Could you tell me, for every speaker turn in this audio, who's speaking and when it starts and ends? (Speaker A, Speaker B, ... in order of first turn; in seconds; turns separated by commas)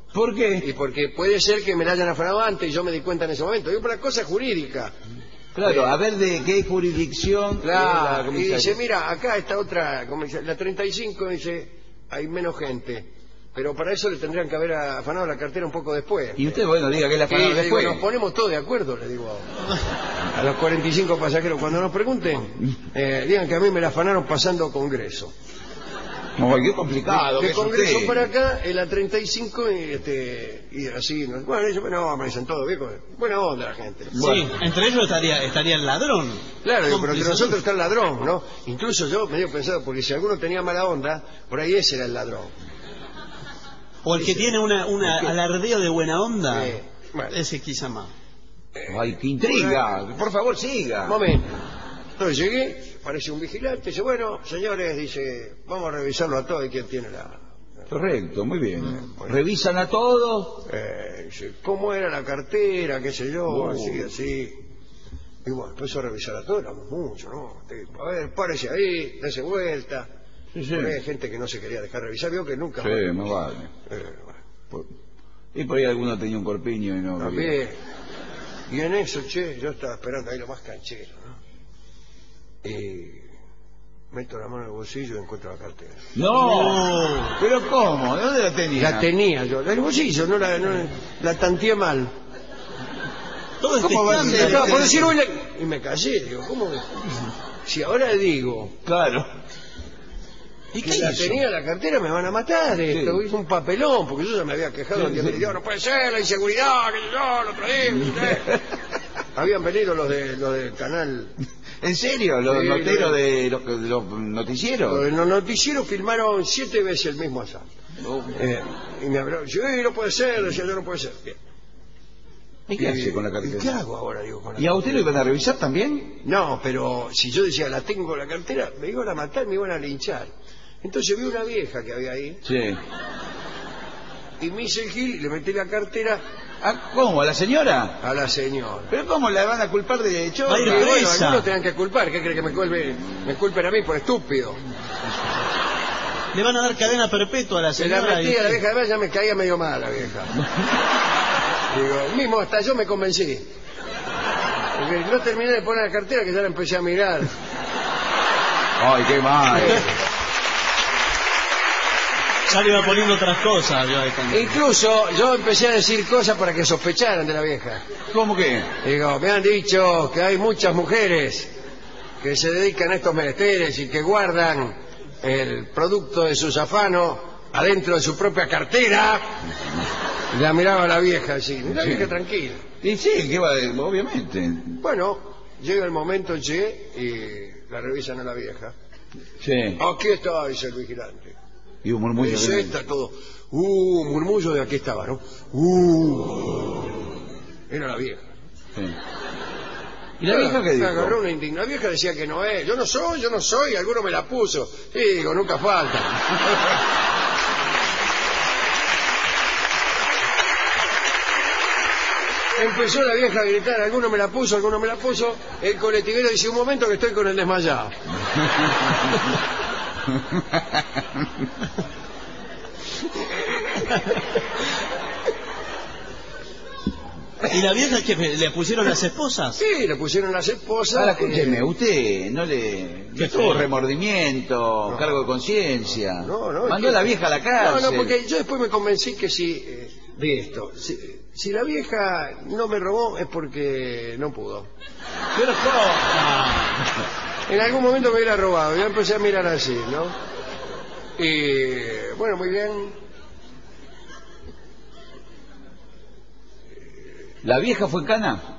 Speaker A: 0.1-0.7, Speaker B: 0.6-4.9, Speaker A: 5.5-8.8, Speaker B: 5.6-5.9, Speaker B: 7.6-16.6, Speaker A: 16.4-18.0, Speaker B: 17.3-19.5, Speaker B: 20.3-25.3, Speaker A: 26.4-28.2, Speaker B: 27.1-34.2, Speaker A: 34.1-34.5, Speaker C: 34.2-37.6, Speaker B: 36.6-42.5, Speaker C: 44.0-48.1, Speaker B: 44.2-44.5, Speaker B: 46.5-47.4, Speaker B: 48.8-49.9, Speaker A: 48.9-51.2, Speaker B: 51.0-51.6, Speaker B: 52.2-57.4, Speaker A: 57.9-60.7, Speaker B: 59.0-59.4, Speaker B: 60.7-64.6, Speaker A: 63.5-64.1, Speaker B: 65.5-70.1, Speaker A: 70.5-71.0, Speaker B: 70.7-73.1, Speaker A: 72.8-73.7, Speaker B: 73.9-74.4, Speaker A: 75.5-77.6, Speaker B: 77.2-77.8, Speaker B: 78.7-81.4, Speaker B: 82.6-83.3, Speaker B: 84.1-86.0, Speaker A: 86.2-89.1, Speaker C: 86.3-87.4, Speaker B: 88.8-92.1, Speaker C: 93.6-95.1, Speaker A: 93.8-95.0, Speaker B: 93.8-97.0, Speaker B: 97.7-98.8, Speaker A: 98.8-99.3, Speaker A: 100.7-101.4, Speaker B: 100.8-108.6, Speaker A: 102.9-103.2, Speaker A: 105.0-105.4, Speaker B: 109.3-111.3, Speaker A: 111.8-115.0, Speaker B: 112.5-113.2, Speaker B: 114.9-117.7, Speaker A: 118.0-118.4, Speaker B: 118.3-121.4, Speaker A: 122.7-123.7, Speaker B: 122.8-125.0, Speaker A: 124.6-126.2, Speaker B: 126.2-130.3, Speaker B: 130.8-132.4, Speaker A: 132.4-132.8, Speaker B: 134.4-136.2, Speaker A: 136.6-138.0, Speaker B: 138.0-138.9, Speaker A: 138.9-140.9, Speaker C: 140.5-141.5, Speaker B: 140.6-144.6, Speaker C: 146.3-148.6, Speaker B: 147.8-150.3, Speaker B: 151.7-153.5, Speaker B: 154.8-157.3, Speaker A: 158.8-159.9, Speaker B: 159.5-159.9, Speaker C: 162.5-164.6, Speaker B: 164.3-167.8, Speaker A: 168.1-168.7, Speaker B: 168.8-171.5, Speaker B: 172.2-179.3, Speaker B: 180.3-182.7, Speaker A: 181.8-182.1, Speaker A: 182.8-184.8, Speaker B: 184.8-188.8, Speaker A: 189.4-189.8, Speaker B: 189.8-191.4, Speaker A: 191.8-192.8, Speaker B: 192.2-196.9, Speaker B: 197.7-198.3, Speaker A: 200.2-201.2, Speaker B: 200.2-206.4, Speaker B: 212.6-217.9, Speaker C: 227.4-229.6, Speaker B: 229.6-231.7, Speaker A: 230.9-238.1, Speaker C: 233.2-233.7, Speaker B: 234.9-235.3, Speaker B: 236.1-244.7, Speaker C: 245.4-246.8, Speaker B: 247.5-250.2, Speaker B: 251.2-253.0, Speaker A: 257.4-258.4